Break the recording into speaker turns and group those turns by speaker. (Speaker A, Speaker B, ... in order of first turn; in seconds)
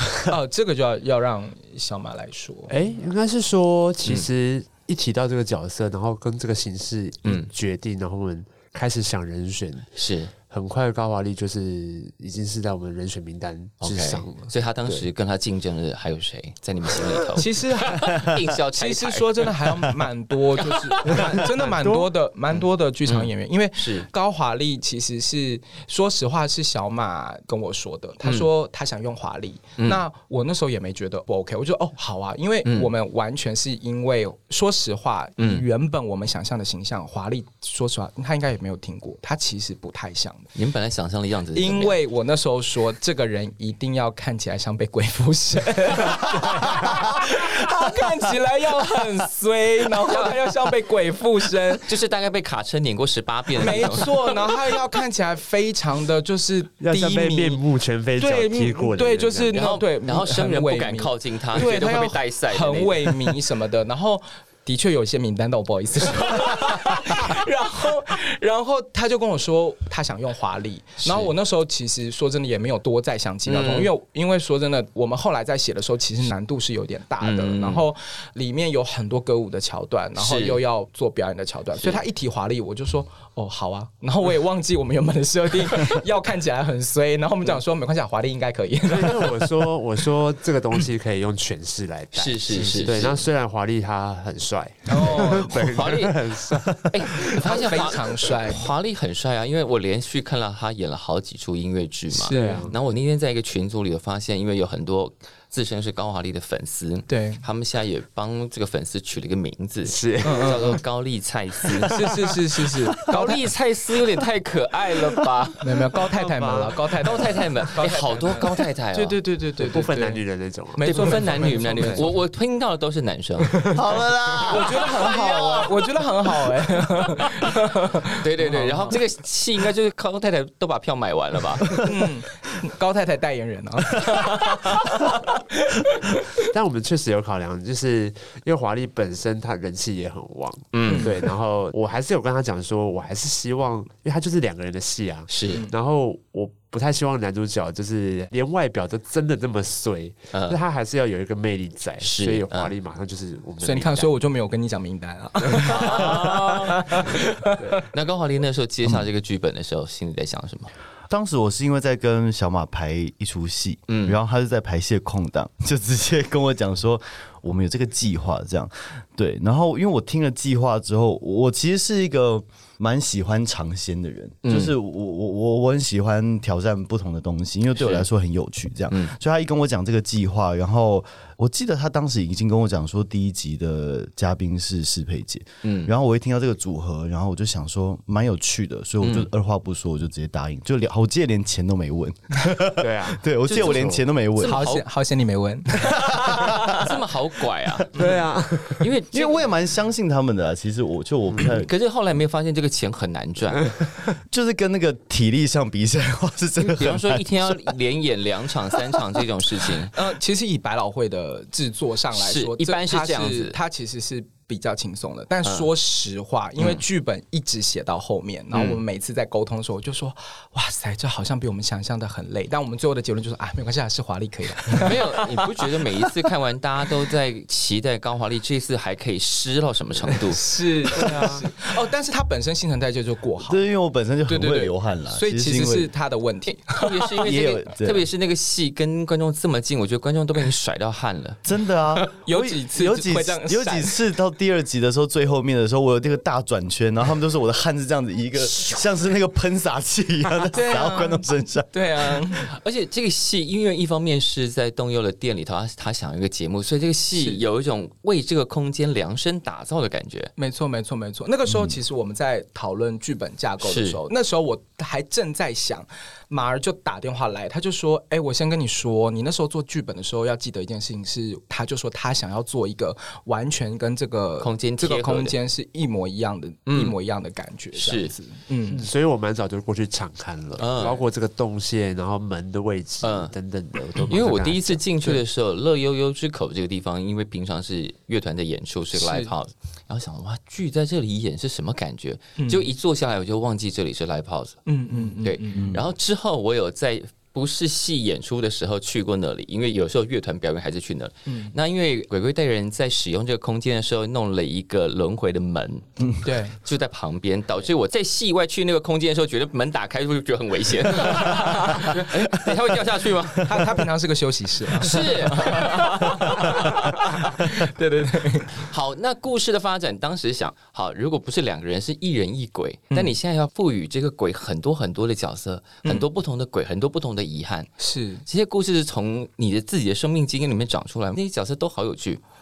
Speaker A: 0.2-2.7, 17.4-40.5, 41.5-51.9, 53.6-57.6, 58.2-89.4, 94.9-95.8, 97.4-98.7, 102.1-102.7, 107.1-107.4, 110.2-110.8, 111.8-113.5, 115.6-122.1, 124.5-129.0, 131.8-136.5, 140.9-141.1, 153.6-157.8, 194.4-196.9, 209.9-225.3, 230.3-233.6, 234.3-237.3, 242.2-243.9, 250.5-252.5, 257.1-257.4, 260.4-278.8, 288.9-289.3, 292.4-292.6, 294.6-295.8, 301.2-301.5, 306.2-306.6, 311.2-312.0, 313.4-318.6, 327.8-328.2
Speaker B: 2.7-15.1, 21.1-22.1, 56.8-59.5, 88.8-97.7, 102.3-102.7, 109.8-110.8, 111.6-112.1, 116.1-116.8, 119.6-122.1, 123.4-124.4, 136.5-154.1, 192.8-194.0, 197.9-198.9, 230.9-231.5, 278.7-284.8
Speaker C: 9.9-10.3, 13.8-19.6, 20.6-21.3, 22.5-24.1, 32.6-32.9, 35.4-35.6, 40.5-42.0, 50.1-50.3, 51.8-54.3, 59.5-63.2, 71.0-71.3, 73.5-73.9, 77.2-77.8, 80.2-80.6, 92.1-93.3, 94.9-112.1, 113.0-115.6, 117.0-119.2, 120.8-123.8, 124.5-125.9, 127.2-127.5, 128.2-131.8, 140.7-141.2, 145.3-145.6, 150.3-150.6, 152.0-152.7, 155.6-157.0, 157.9-160.7, 163.9-164.2, 174.4-174.7, 177.8-178.1, 185.6-185.9, 189.0-189.3, 193.5-194.8, 196.2-198.2, 198.8-199.5, 201.4-203.7, 206.6-209.9, 212.1-213.6, 218.5-218.8, 224.8-230.5, 236.7-241.4, 252.5-260.3, 263.6-264.0, 274.4-275.3, 276.7-276.9, 277.7-278.1, 280.6-281.0, 283.0-283.3, 284.0-294.6, 295.2-313.6, 314.8-316.9, 318.6-327.7, 328.2-332.2
Speaker D: 123.7-124.8, 161.1-194.6, 195.8-196.8, 197.8-198.1, 199.1-201.7, 204.3-207.8, 208.7-209.2, 233.4-235.9, 237.2-238.1, 241.4-252.2, 261.5-261.7